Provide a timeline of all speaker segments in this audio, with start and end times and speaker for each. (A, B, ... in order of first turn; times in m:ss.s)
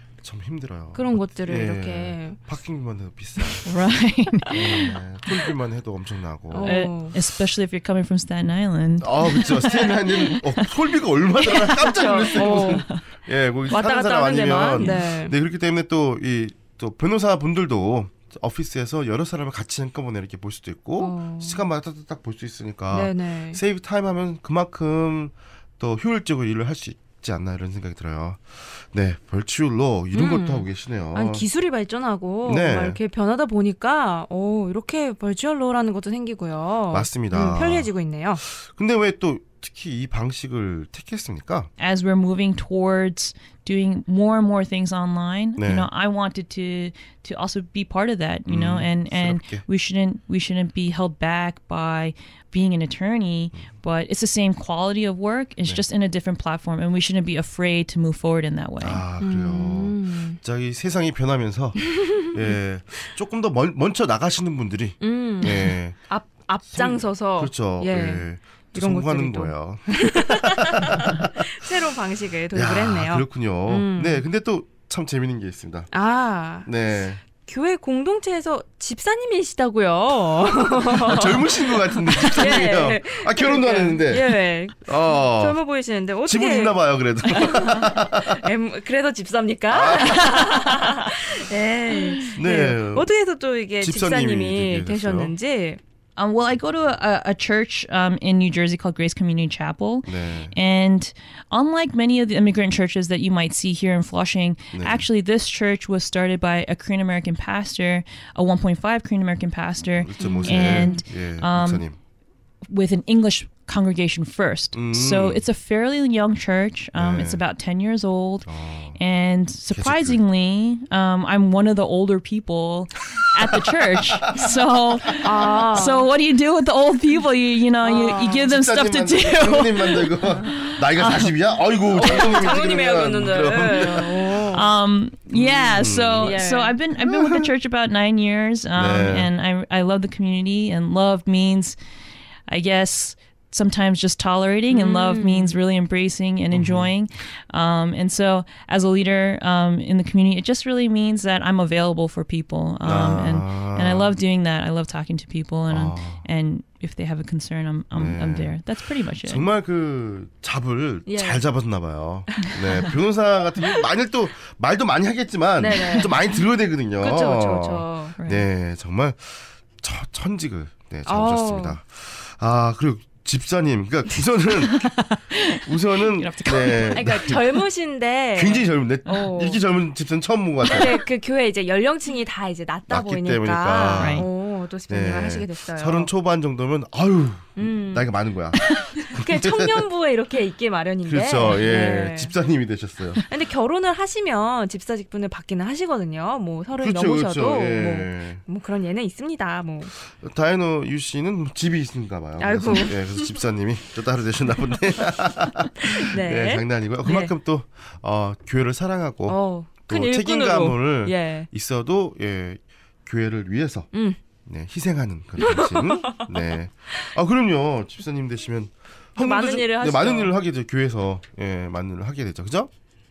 0:00.2-0:03.7 A
0:00.9-0:02.4 B
0:03.6-0:05.0 C
0:04.5-0:06.8 A
0:06.5-0:07.2 B
0:06.6-0:10.8 C
0:09.0-0:31.5 A
0:11.4-0:13.0 C
0:11.8-0:12.9 B
0:13.7-0:15.3 B
0:14.8-0:15.0 C
0:21.0-0:21.6 B
0:22.9-0:23.6 B
0:30.1-0:38.4 B
0:32.4-0:33.0 A
0:36.9-0:37.9 A
0:38.4-0:41.7 A
0:41.8-0:59.0 C
0:45.6-0:45.9 A
0:48.5-0:49.6 A
0:58.8-1:06.0 A
0:59.2-1:00.4 B
1:01.9-1:02.5 B
1:05.0-1:14.2 B
1:06.7-1:11.3 A
1:12.5-1:15.9 A
1:15.9-1:35.8 B
1:16.6-1:17.2 A
1:20.9-1:25.6 A
1:26.2-1:28.4 A
1:29.7-1:30.4 A
1:32.3-1:33.1 A
1:33.8-1:35.3 A
1:36.2-1:51.9 C
1:40.0-1:40.6 A
1:44.7-1:45.1 A
1:50.0-1:52.0 A
1:50.2-1:51.0 B
1:52.7-2:11.6 C
1:54.7-1:55.4 A
1:57.0-1:57.4 A
1:58.5-1:59.0 A
1:59.7-2:00.2 A
2:05.2-2:06.1 B
2:07.8-2:08.5 B
2:08.5-2:14.6 A
2:11.9-2:14.7 B
2:14.4-2:21.8 C
2:15.3-2:16.4 A
2:16.2-2:16.8 B
2:17.0-2:17.5 A
2:18.8-2:19.3 A
2:22.5-2:39.5 C
2:24.7-2:25.6 B
2:26.5-2:26.9 A
2:32.8-2:34.2 A
2:35.7-2:36.2 A
2:37.9-2:38.6 A
2:39.2-2:57.4 A
2:41.1-2:41.5 B
2:45.6-2:46.4 B
2:45.7-2:46.1 C
2:47.0-2:48.2 B
2:48.2-2:48.5 C
2:51.1-2:51.8 B
2:54.6-2:57.4 C
2:56.9-2:59.6 B
2:58.4-3:01.0 A
3:00.7-3:06.1 B
3:02.9-3:04.3 A
3:04.0-3:04.3 C
3:04.9-3:09.9 A
3:07.6-3:08.1 B
3:08.7-3:12.3 B
3:11.1-3:13.2 A
3:13.3-3:19.9 B
3:16.8-3:18.4 A
3:20.1-3:33.9 A
3:22.4-3:23.4 B
3:25.8-3:27.3 B
3:29.3-3:31.5 B
3:33.9-3:34.2 B
3:34.5-3:42.7 A
3:35.4-3:36.4 B
3:39.2-3:40.4 B